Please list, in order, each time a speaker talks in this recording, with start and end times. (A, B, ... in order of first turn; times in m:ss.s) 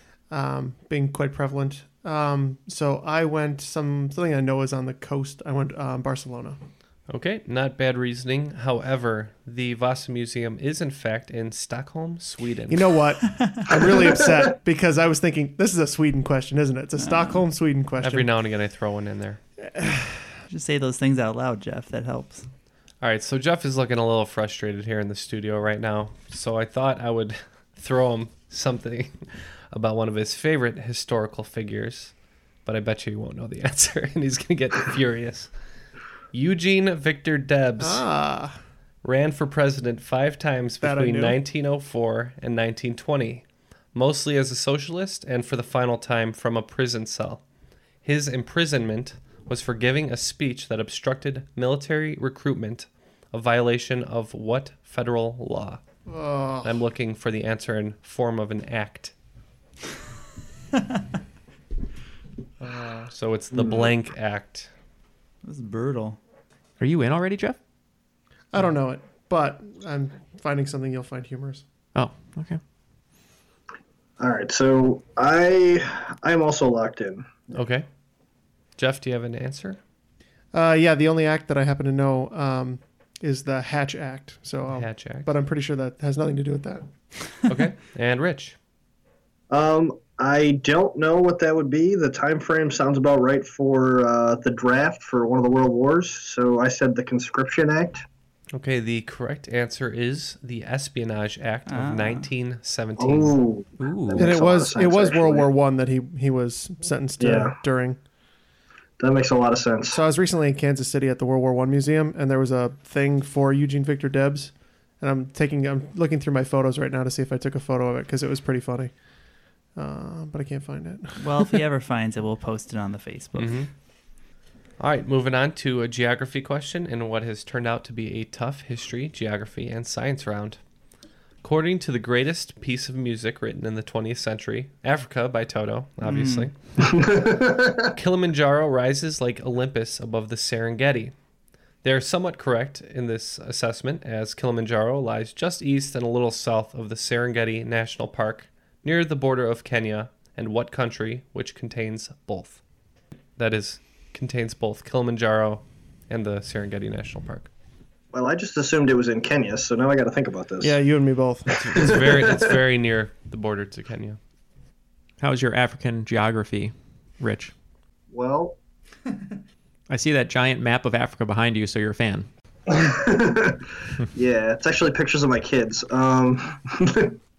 0:00.3-0:06.6 A
0:07.1-0:12.9 B
0:12.7-0:18.3 A
0:17.0-0:17.4 C
0:18.0-0:19.4 B
0:19.6-0:20.2 A
0:20.5-0:22.5 C
0:23.0-0:32.1 B
0:32.6-0:35.5 B
0:36.3-0:38.0 B
0:37.8-0:38.6 A
0:39.0-0:47.4 B
0:40.8-0:41.4 A
0:48.0-0:55.8 B
0:56.0-0:56.8 A
0:56.6-0:59.1 B
1:02.6-1:03.1 A
1:03.1-1:04.7 B
1:03.5-1:03.9 D
1:05.4-1:06.2 C
1:06.8-1:07.6 E
1:08.5-1:11.6 A
1:11.9-1:12.6 E
1:14.2-1:17.4 D
1:17.5-1:17.8 B
1:18.8-1:19.8 B
1:20.5-1:26.8 A
1:24.7-1:25.3 B
1:27.5-1:28.6 B
1:29.5-1:38.0 D
1:38.5-1:43.3 B
1:41.7-1:42.3 C
1:43.0-1:45.5 D
1:43.8-1:44.3 E
1:44.2-1:48.0 A
1:47.2-1:47.6 D
1:49.0-1:50.0 D
1:49.9-1:58.9 A
1:59.7-2:01.6 A
2:01.2-2:03.5 C
2:03.3-2:03.7 B
2:04.8-2:10.6 B
2:11.4-2:16.5 B
2:16.0-2:16.5 C
2:16.8-2:17.9 D
2:17.9-2:21.1 B
2:21.8-2:32.6 B
2:33.4-2:37.5 B
2:38.1-2:40.8 D
2:40.6-2:41.5 A
2:41.6-2:44.2 B
2:41.7-2:42.6 D
2:45.2-2:47.5 E
2:48.1-2:48.6 D
2:49.9-2:52.3 E
2:52.7-2:57.2 D